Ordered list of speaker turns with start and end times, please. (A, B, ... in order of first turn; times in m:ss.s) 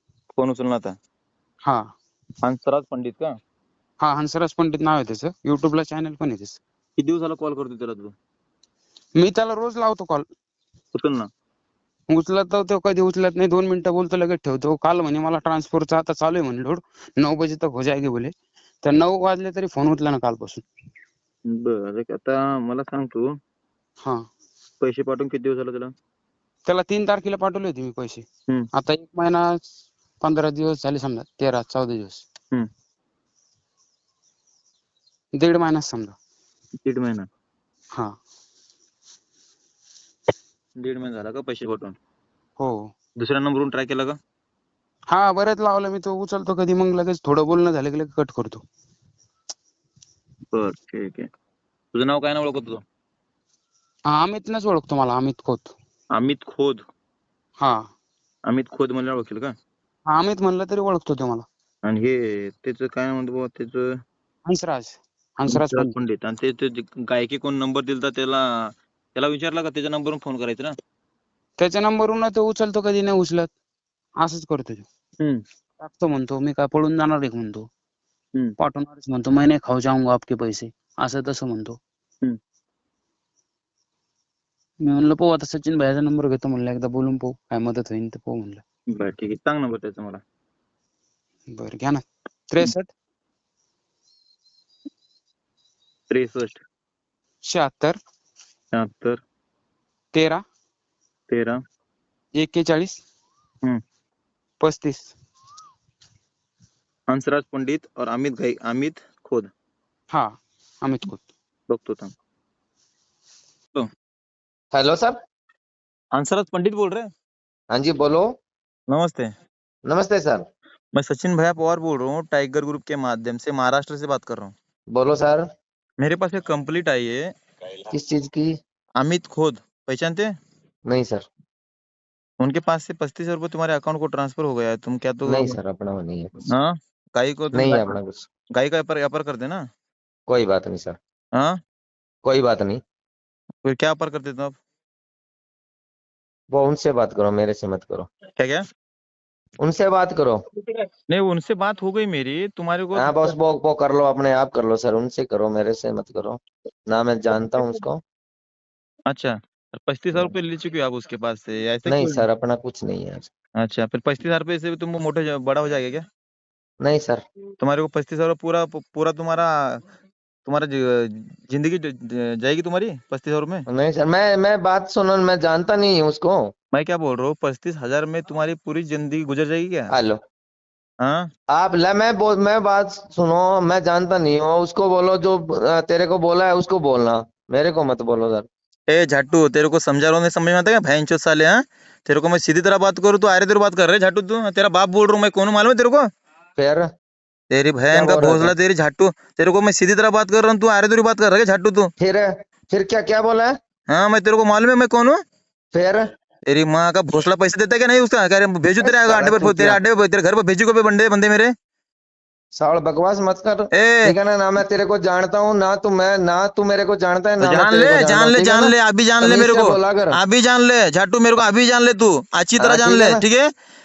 0:00.3-0:00.9 A
0:02.4-0:03.3 A
0:04.0-0:06.6 B
0:07.0-0:08.1 A
0:09.2-0:10.2 B
0:10.9-0:11.3 A
0:12.1-0:18.3 B
0:18.8-0:20.6 B
0:21.5-0:23.3 A
0:24.8-0:25.9 A
0:26.6-0:29.4 B
0:30.2-0:32.2 B
0:35.4-0:36.2 B
0:36.8-0:37.3 A
0:40.8-0:42.0 A
0:42.6-0:42.9 B
0:43.2-0:44.2 A
0:45.1-0:48.6 B
0:50.5-0:51.2 A
0:51.9-0:52.8 A
0:54.1-0:55.7 B
0:56.1-0:56.8 A
0:57.6-0:57.9 B
0:58.5-0:59.5 A
1:00.1-1:01.4 B
1:01.8-1:03.8 A
1:04.4-1:05.9 B
1:05.5-1:08.4 A
1:09.1-1:10.7 A
1:11.6-1:13.5 B
1:14.2-1:14.8 B
1:15.8-1:17.7 B
1:18.6-1:21.8 B
1:24.8-1:28.6 B
1:28.9-1:30.2 A
1:31.5-1:32.9 B
1:36.1-1:36.6 A
1:37.4-1:38.0 B
1:38.7-1:39.2 A
1:40.1-1:40.4 B
1:41.3-1:41.6 A
1:42.4-1:43.0 B
1:44.6-1:45.1 B
1:47.1-1:49.5 A
1:50.1-1:51.2 B
1:51.7-1:52.1 A
1:54.7-1:55.2 C
1:56.1-1:57.1 A
1:57.7-1:58.2 C
1:58.9-1:59.3 A
1:59.9-2:00.4 C
2:00.9-2:04.5 A
2:04.9-2:05.4 C
2:06.0-2:07.2 A
2:07.9-2:08.5 C
2:09.0-2:10.3 A
2:10.9-2:11.2 C
2:12.4-2:15.6 A
2:15.2-2:16.5 C
2:16.5-2:17.9 A
2:17.5-2:18.2 C
2:18.5-2:19.6 A
2:20.3-2:21.0 C
2:22.2-2:22.8 C
2:23.6-2:24.5 A
2:26.5-2:28.1 C
2:28.4-2:28.6 A
2:29.6-2:30.4 C
2:31.1-2:33.3 A
2:32.9-2:38.0 C
2:39.1-2:42.2 A
2:41.8-2:43.3 C
2:43.6-2:46.0 A
2:46.8-2:47.2 C
2:47.6-2:49.8 A
2:50.4-2:53.6 A
2:53.7-2:56.4 C
2:56.7-2:59.9 A
2:59.9-3:00.2 C
3:01.0-3:01.3 A
3:01.5-3:08.5 C
3:08.9-3:16.0 A
3:16.6-3:16.9 C
3:17.5-3:21.9 A
3:17.9-3:18.5 C
3:22.0-3:23.5 C
3:23.9-3:25.2 A
3:25.7-3:26.0 C
3:26.5-3:31.5 A
3:28.8-3:29.8 C
3:32.6-3:40.2 C
3:33.7-3:34.1 A
3:37.4-3:43.5 A
3:42.6-3:43.2 C